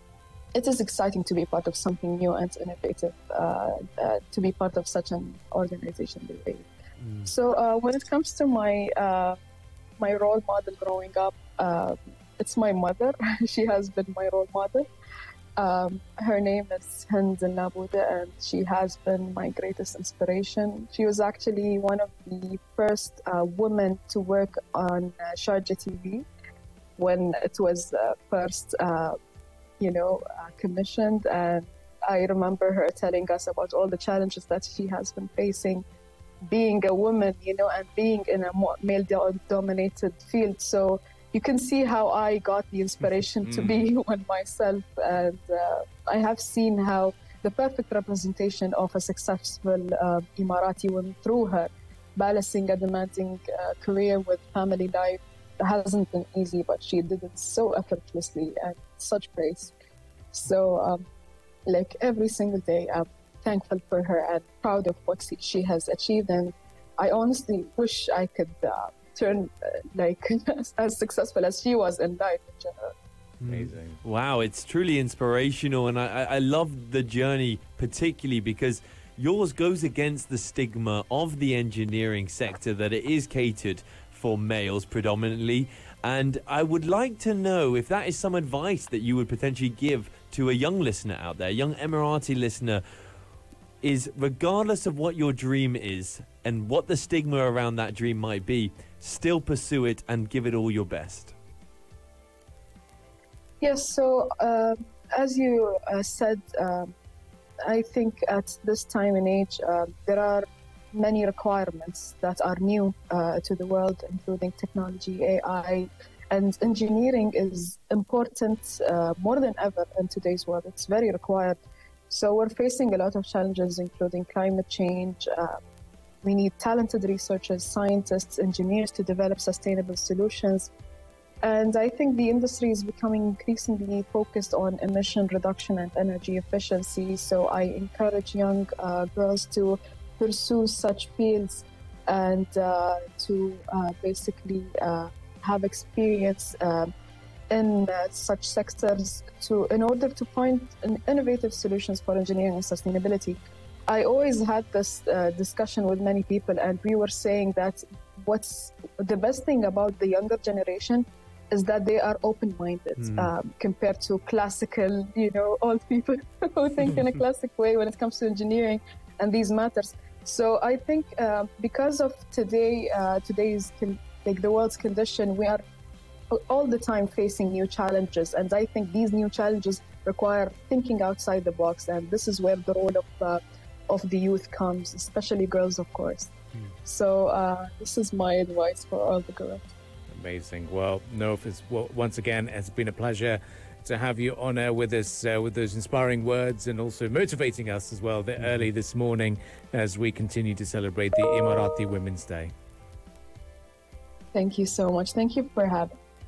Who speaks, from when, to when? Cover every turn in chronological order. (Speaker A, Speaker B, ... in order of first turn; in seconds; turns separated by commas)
Speaker A: 0.5-6.7, Speaker A: 7.2-9.4, Speaker A: 10.0-14.9, Speaker A: 15.6-26.3, Speaker A: 27.0-29.2, Speaker A: 29.8-35.8, Speaker A: 36.5-59.7, Speaker B: 43.5-43.9, Speaker A: 60.3-61.0, Speaker A: 61.7-72.9, Speaker C: 73.4-92.8, Speaker B: 73.4-74.0, Speaker C: 93.8-101.3, Speaker A: 103.6-107.0, Speaker A: 107.6-125.6, Speaker A: 126.2-130.7, Speaker A: 131.4-146.9, Speaker A: 147.5-175.6, Speaker C: 163.0-163.3, Speaker A: 176.3-189.7, Speaker B: 190.1-202.5, Speaker A: 204.3-205.9